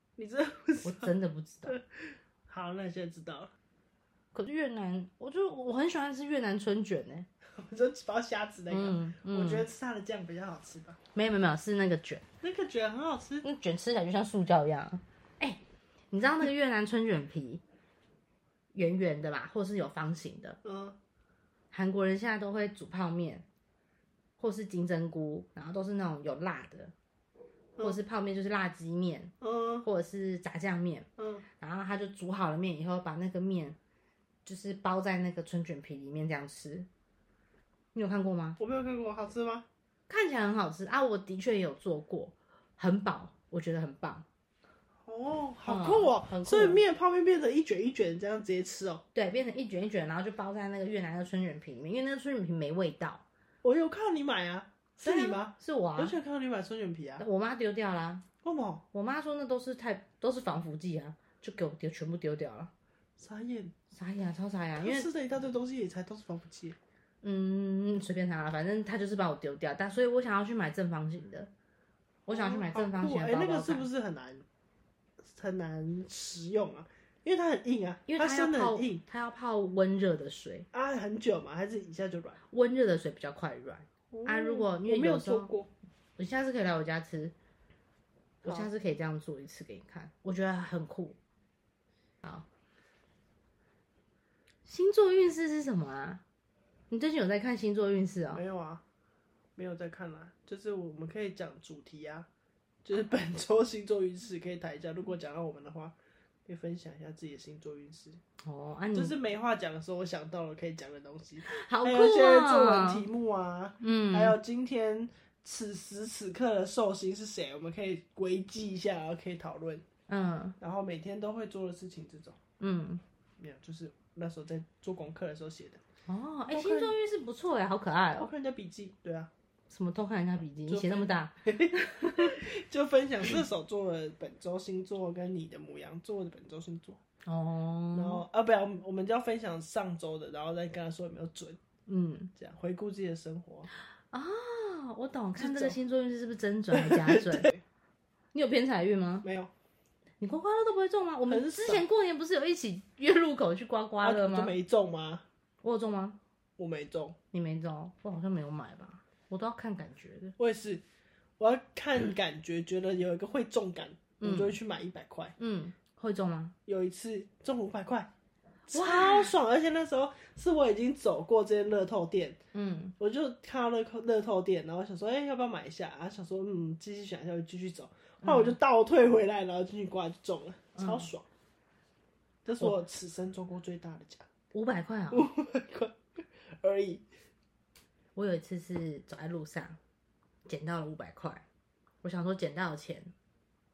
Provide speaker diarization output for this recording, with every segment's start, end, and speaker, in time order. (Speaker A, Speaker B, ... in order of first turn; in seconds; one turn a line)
Speaker A: 0.2-1.1
Speaker B: 0.8-1.8
Speaker A: 1.7-3.5
Speaker B: 4.3-7.3
Speaker A: 7.6-11.0
Speaker B: 8.7-9.7
Speaker B: 11.2-12.2
Speaker A: 12.4-13.5
Speaker B: 13.4-17.6
Speaker B: 18.7-20.6
Speaker A: 20.6-21.0
Speaker B: 21.7-23.4
Speaker B: 24.4-26.9
Speaker B: 27.8-31.1
Speaker A: 29.4-29.9
Speaker A: 31.2-31.5
Speaker B: 31.6-33.8
Speaker B: 34.5-36.9
Speaker B: 37.9-38.6
Speaker A: 38.6-39.7
Speaker B: 40.1-44.3
Speaker A: 45.0-49.0
Speaker B: 45.7-46.8
Speaker B: 49.1-53.2
Speaker A: 53.6-57.3
Speaker B: 55.0-56.2
Speaker B: 57.2-58.3
Speaker A: 58.4-58.9
Speaker B: 58.9-62.7
Speaker A: 63.2-63.7
Speaker B: 63.9-65.1
Speaker A: 64.8-66.8
Speaker B: 67.2-71.5
Speaker A: 72.3-74.5
Speaker B: 72.3-73.9
Speaker A: 75.3-79.0
Speaker B: 78.1-80.7
Speaker A: 80.7-82.4
Speaker B: 82.5-85.5
Speaker A: 84.1-85.7
Speaker B: 86.2-87.3
Speaker B: 88.4-91.2
Speaker B: 94.7-96.2
Speaker B: 96.9-98.4
Speaker A: 98.3-98.8
Speaker A: 99.6-102.3
Speaker A: 102.8-106.0
Speaker A: 106.5-108.2
Speaker B: 108.5-109.2
Speaker A: 108.9-119.8
Speaker B: 111.5-113.1
Speaker B: 113.8-114.4
Speaker B: 120.1-120.6
Speaker A: 120.6-122.4
Speaker B: 122.6-123.0
Speaker A: 123.4-125.8
Speaker B: 126.1-128.3
Speaker A: 126.5-126.9
Speaker A: 128.2-129.3
Speaker B: 129.7-132.4
Speaker A: 130.7-137.0
Speaker B: 137.2-138.2
Speaker A: 137.9-141.6
Speaker B: 141.9-142.3
Speaker A: 142.3-143.7
Speaker B: 144.1-147.5
Speaker A: 145.4-145.8
Speaker A: 146.7-147.6
Speaker B: 148.3-149.3
Speaker A: 149.2-149.5
Speaker B: 150.2-154.5
Speaker A: 151.3-151.8
Speaker A: 154.0-155.2
Speaker B: 155.6-156.2
Speaker A: 156.6-157.2
Speaker B: 157.3-160.4
Speaker A: 160.4-160.8
Speaker A: 161.4-165.4
Speaker B: 164.2-164.6
Speaker B: 165.4-166.6
Speaker A: 166.7-168.1
Speaker A: 168.7-172.4
Speaker B: 168.7-169.3
Speaker B: 172.5-172.9
Speaker A: 173.0-181.3
Speaker B: 178.2-178.6
Speaker B: 180.8-181.1
Speaker A: 182.4-184.3
Speaker B: 184.5-185.3
Speaker A: 185.1-186.0
Speaker A: 186.6-187.0
Speaker B: 188.2-189.8
Speaker B: 190.5-191.4
Speaker B: 192.0-193.1